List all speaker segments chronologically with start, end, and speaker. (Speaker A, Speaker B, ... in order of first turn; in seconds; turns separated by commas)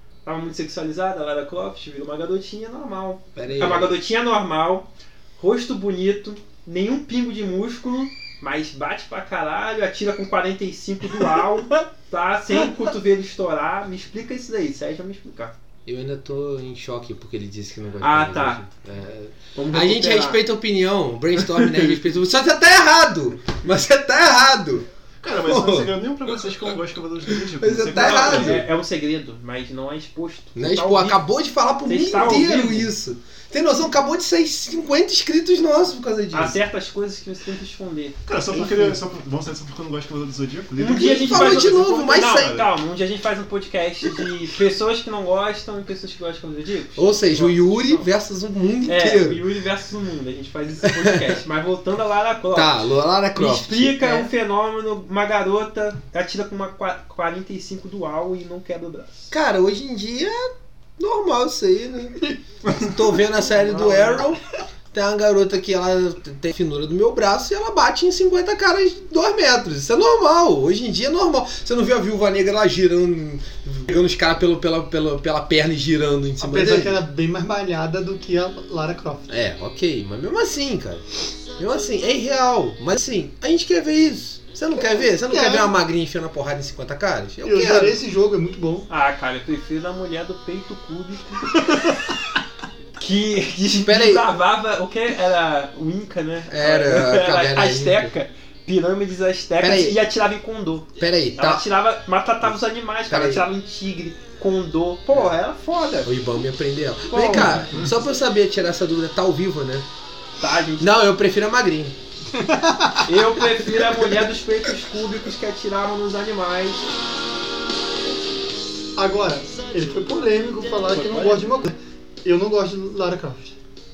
Speaker A: 0.2-15.5, Speaker B: 3.3-4.0, Speaker B: 15.8-26.7, Speaker A: 18.0-18.6, Speaker A: 19.5-20.4, Speaker A: 21.5-21.8, Speaker C: 25.2-28.7, Speaker B: 27.2-28.6, Speaker A: 27.9-31.2, Speaker B: 30.6-36.6, Speaker A: 31.8-32.9, Speaker A: 36.3-39.0, Speaker C: 38.3-41.8, Speaker A: 40.8-48.1, Speaker B: 40.9-42.7, Speaker B: 47.0-49.4, Speaker A: 48.9-52.8, Speaker B: 50.9-51.4, Speaker B: 52.5-54.3, Speaker A: 53.3-59.3, Speaker B: 59.3-77.0, Speaker A: 63.6-64.2, Speaker D: 76.4-79.3, Speaker B: 79.3-88.0, Speaker D: 85.1-85.7, Speaker D: 87.4-88.9, Speaker A: 88.9-92.2, Speaker A: 93.0-106.1, Speaker B: 93.7-94.3, Speaker B: 96.5-98.1, Speaker B: 99.6-100.0, Speaker B: 101.0-101.6, Speaker B: 103.1-103.4, Speaker B: 106.0-109.9, Speaker A: 107.1-107.7, Speaker A: 110.4-111.0, Speaker B: 110.8-111.9, Speaker D: 112.3-113.4, Speaker A: 113.0-116.8, Speaker D: 119.0-123.5, Speaker A: 120.9-121.5